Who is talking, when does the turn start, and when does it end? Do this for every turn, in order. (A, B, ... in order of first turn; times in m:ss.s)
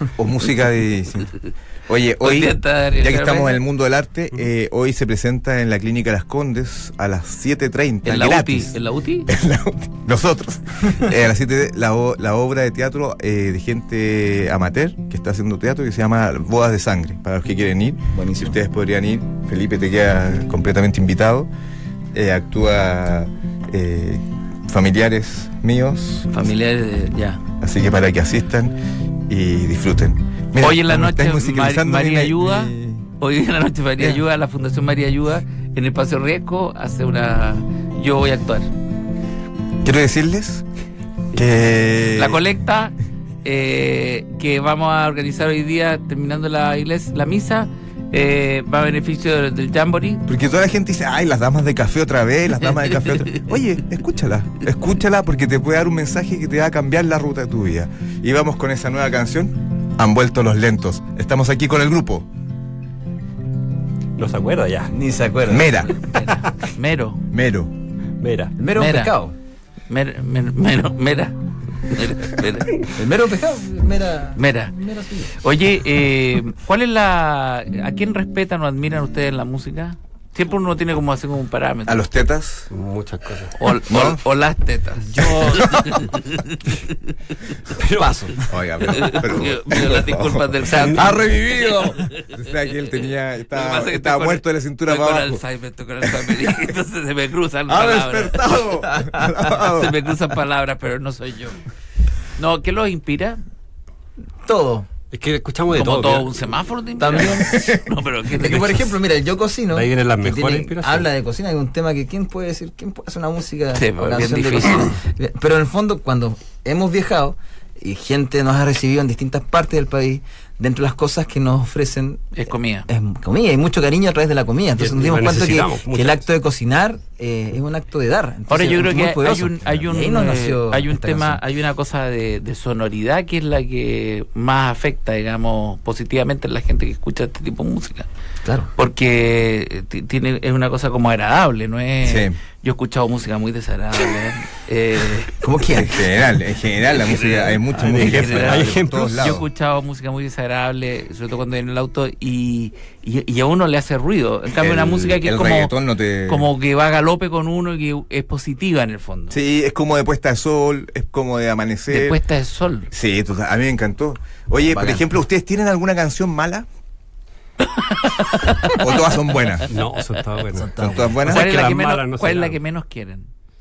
0:00.2-0:21.5 A
0:02.2-0:03.6 B
0:08.0-0:09.3 B
0:18.1-0:18.6 C
0:22.1-0:26.4 A
0:26.3-0:27.4 B
0:27.6-0:33.0 A
0:30.6-0:38.7 B
0:39.8-0:40.6 A
0:41.3-0:42.4 A
0:42.1-0:50.2 B
0:50.3-1:02.3 A
1:04.2-1:04.9 D
1:04.9-1:05.9 C
1:05.5-1:06.0 A
1:05.9-1:07.2 B
1:07.3-1:07.7 A
1:08.2-1:08.5 D
1:08.6-1:09.3 C
1:08.7-1:09.1 B
1:09.9-1:12.7 B
1:12.9-1:15.4 C
1:14.4-1:14.7 B
1:15.4-1:22.1 B
1:21.9-1:22.7 A
1:22.7-1:23.6 D
1:23.6-1:26.9 B
1:23.8-1:24.2 A
1:25.2-1:25.7 D
1:25.4-1:26.0 A
1:27.8-1:28.1 D
1:27.9-1:28.4 C
1:28.5-1:35.4 A
1:28.9-1:31.9 B
1:30.6-1:31.1 D
1:33.5-1:38.6 B
1:36.1-1:36.5 A
1:37.7-1:40.0 A
1:38.8-1:39.4 C
1:39.6-1:41.6 B
1:42.4-1:43.4 B
1:44.4-1:44.9 C
1:45.1-1:46.3 D
1:45.7-1:48.8 B
1:47.0-2:02.3 C
1:48.4-1:48.9 D
1:49.7-1:51.1 D
1:53.7-1:55.0 B
2:02.3-2:02.9 B
2:02.9-2:11.4 C
2:04.8-2:06.2 D
2:08.5-2:18.1 B
2:18.4-2:18.7 C
2:18.7-2:25.3 B
2:22.0-2:22.4 A
2:25.4-2:26.0 C
2:25.7-2:29.5 A
2:27.0-2:35.7 B
2:27.8-2:29.3 D
2:34.6-2:36.5 A
2:36.2-2:39.4 B
2:39.3-2:42.2 A
2:41.9-2:42.9 B
2:42.9-2:46.7 A
2:44.7-2:45.0 C
2:47.6-2:49.7 B
2:48.7-2:49.7 A
2:49.7-2:52.6 D
2:50.5-2:51.2 C
2:50.8-2:51.4 A
2:51.2-2:53.3 B